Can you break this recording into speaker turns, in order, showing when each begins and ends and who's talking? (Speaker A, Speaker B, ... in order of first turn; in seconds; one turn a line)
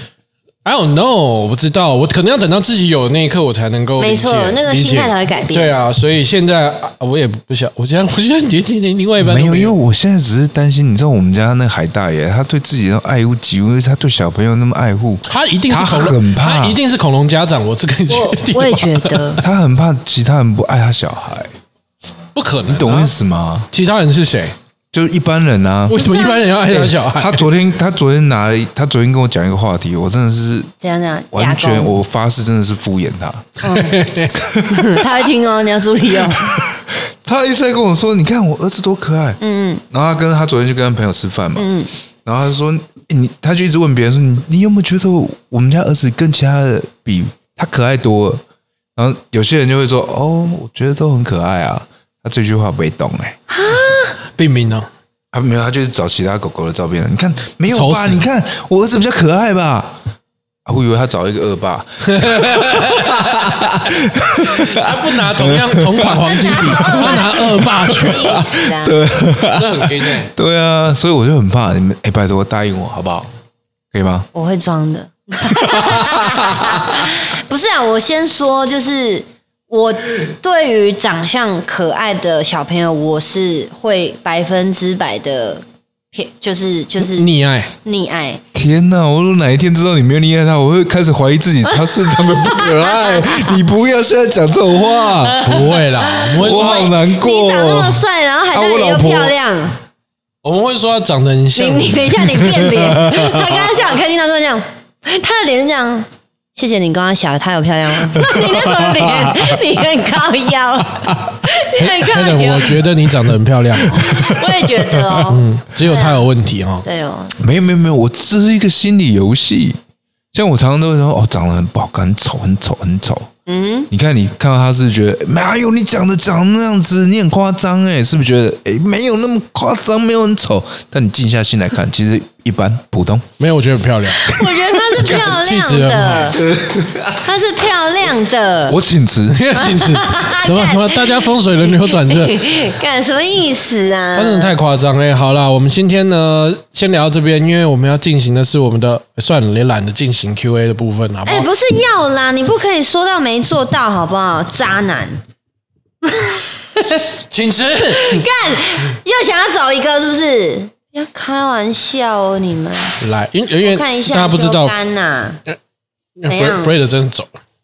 Speaker A: 0.6-9.8
Speaker B: 4.0-5.7
Speaker C: 9.2-16.8
Speaker A: 15.3-19.4
Speaker B: 18.1-19.4
Speaker C: 19.4-21.5
Speaker A: 22.4-23.1
Speaker C: 22.7-23.7
Speaker A: 23.7-24.6
Speaker C: 24.9-26.0
Speaker A: 25.9-27.5
Speaker B: 25.9-26.4
Speaker C: 26.7-30.7
Speaker B: 30.8-32.0
Speaker C: 31.3-33.6
Speaker B: 33.6-34.0
Speaker A: 33.6-34.4
Speaker C: 34.4-35.0
Speaker B: 34.6-36.6
Speaker C: 36.4-41.7
Speaker B: 39.4-39.8
Speaker B: 41.6-41.9
Speaker C: 42.2-48.4
Speaker C: 49.0-53.4
Speaker B: 53.5-54.1
Speaker A: 54.4-54.9
Speaker C: 55.3-60.0
Speaker A: 57.7-58.2
Speaker C: 60.7-73.3
Speaker A: 62.0-63.8
Speaker A: 64.4-68.4
Speaker B: 66.6-69.0
Speaker A: 69.5-70.3
Speaker C: 73.9-74.3
Speaker B: 74.3-87.3
Speaker C: 75.7-76.9
Speaker A: 87.0-87.7
Speaker B: 87.8-88.4
Speaker C: 88.5-95.6
Speaker B: 91.7-93.6
Speaker B: 95.0-99.8
Speaker A: 95.4-96.9
Speaker C: 96.4-99.3
Speaker A: 100.4-102.6
Speaker B: 101.6-112.9
Speaker C: 102.6-103.3
Speaker C: 108.2-109.6
Speaker A: 111.7-114.2
Speaker B: 113.9-116.3
Speaker C: 113.9-115.1
Speaker A: 115.3-116.9
Speaker B: 116.8-117.3
Speaker C: 117.4-119.8
Speaker C: 120.3-123.3
Speaker B: 123.5-123.9
Speaker C: 123.9-133.3
Speaker A: 133.4-136.4
Speaker B: 134.2-136.4
Speaker C: 136.5-137.2
Speaker B: 137.1-138.8
Speaker C: 138.7-139.6
Speaker A: 139.3-142.5
Speaker B: 139.6-144.6
Speaker A: 144.2-151.5
Speaker B: 151.3-155.2
Speaker B: 156.0-157.1
Speaker A: 157.1-158.2
Speaker B: 157.9-163.0
Speaker A: 163.0-164.8
Speaker B: 163.6-165.4
Speaker A: 166.2-167.3
Speaker B: 166.3-166.8